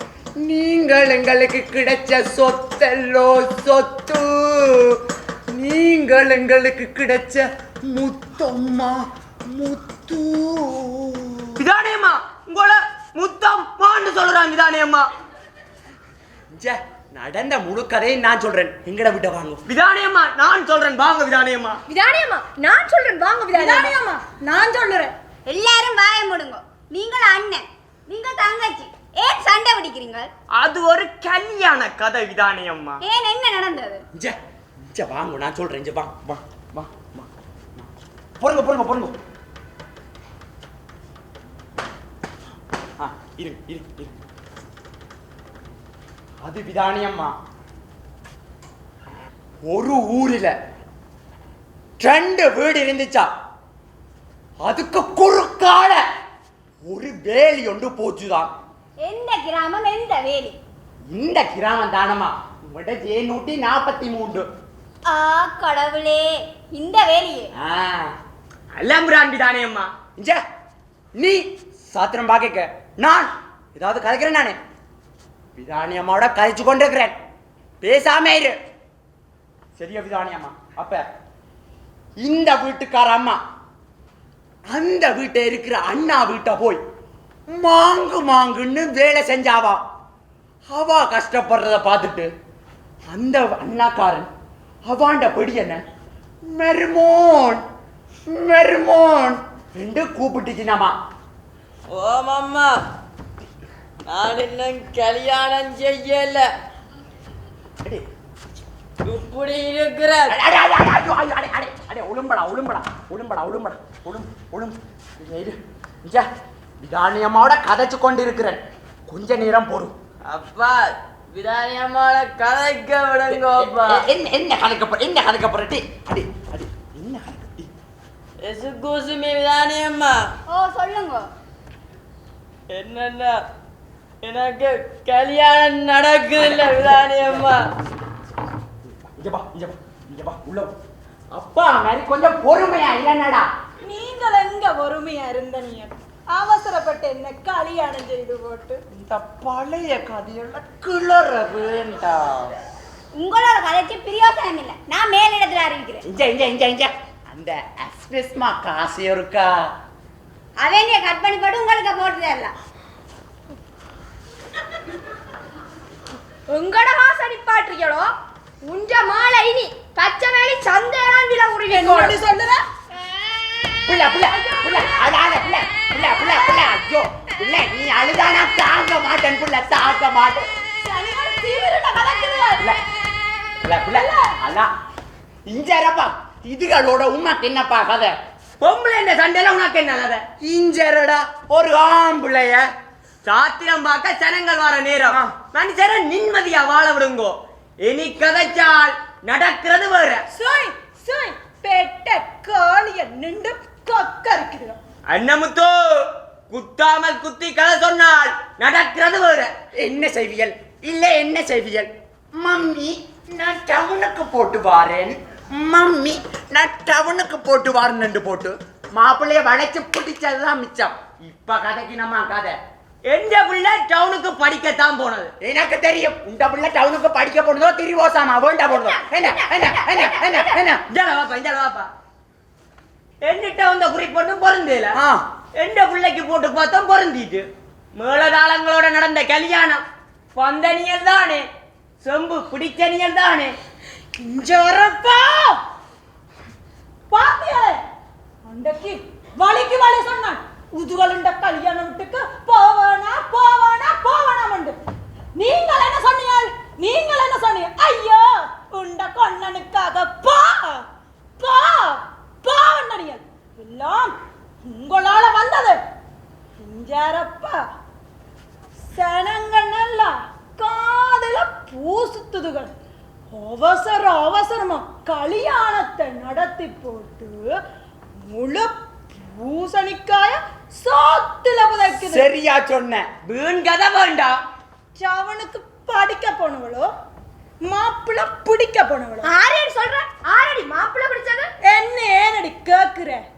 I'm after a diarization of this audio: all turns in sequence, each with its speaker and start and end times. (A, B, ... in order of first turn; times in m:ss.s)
0:00.4-0:05.0 A
0:05.5-0:11.6 A
0:11.6-0:15.0 B
0:16.5-0:19.6 A
0:19.7-0:21.8 B
0:21.9-0:23.9 C
0:23.5-0:25.1 D
0:25.5-0:30.3 E
0:30.5-0:33.0 B
0:33.0-0:34.0 E
0:34.9-0:37.9 A
0:38.4-0:39.2 A
0:43.0-0:44.1 A
0:46.4-0:47.3 A
0:49.6-0:50.5 A
0:52.0-0:53.3 A
0:54.6-0:56.0 A
0:56.8-0:58.5 A
0:59.0-1:00.6 E
1:01.1-1:04.5 A
1:05.1-1:07.5 E
1:07.6-1:08.1 A
1:08.8-1:09.9 B
1:10.2-1:10.4 A
1:11.1-1:14.6 A
1:15.6-1:17.2 A
1:17.8-1:18.6 A
1:19.8-1:21.0 A
1:22.2-1:23.4 A
1:24.7-1:26.8 A
1:27.5-1:29.8 A
1:30.7-1:32.3 A
1:33.1-1:34.3 A
1:34.8-1:35.8 A
1:36.4-1:37.6 A
1:38.3-1:41.0 A
1:41.9-1:42.7 F
1:44.1-1:46.5 F
1:49.1-1:50.4 F
1:50.3-1:56.3 A
1:56.8-1:59.9 A
2:00.3-2:04.0 F
2:03.3-2:07.7 A
2:08.4-2:10.2 F
2:10.5-2:11.3 E
2:12.7-2:13.4 F
2:14.2-2:17.6 F
2:16.4-2:17.5 A
2:19.0-2:20.7 A
2:21.3-2:23.5 A
2:23.8-2:28.8 D
2:28.9-2:32.6 A
2:33.1-2:36.0 E
2:36.0-2:39.7 A
2:40.6-2:42.5 E
2:46.5-2:48.1 C
2:48.6-2:52.2 C
2:51.7-2:52.6 D
2:53.8-3:00.4 A
2:54.6-2:55.0 C
3:00.8-3:02.6 D
3:03.6-3:04.7 A
3:03.9-3:04.3 D
3:05.4-3:08.2 A
3:08.6-3:10.2 B
3:10.4-3:12.6 A
3:13.2-3:20.2 B
3:20.3-3:24.8 D
3:25.1-3:29.5 B
3:29.7-3:42.6 A
3:43.1-3:45.3 B
3:45.4-3:50.8 A
3:48.8-3:50.6 E
3:50.9-3:51.9 B
3:53.2-3:54.9 B
3:54.9-3:55.2 A
3:55.6-3:57.4 B
3:58.0-3:59.8 B
4:00.4-4:01.4 B
4:02.0-4:03.5 B
4:04.2-4:05.6 D
4:07.1-4:07.8 D
4:08.4-4:14.8 D
4:15.4-4:20.8 D
4:21.4-4:25.8 D
4:26.6-4:27.6 D
4:28.9-4:32.7 D
4:33.3-4:37.4 D
4:38.2-4:42.3 D
4:41.9-4:43.1 A
4:43.2-4:44.4 B
4:45.0-4:46.9 D
4:47.6-4:49.3 D
4:49.2-4:51.5 C
4:51.6-4:53.2 D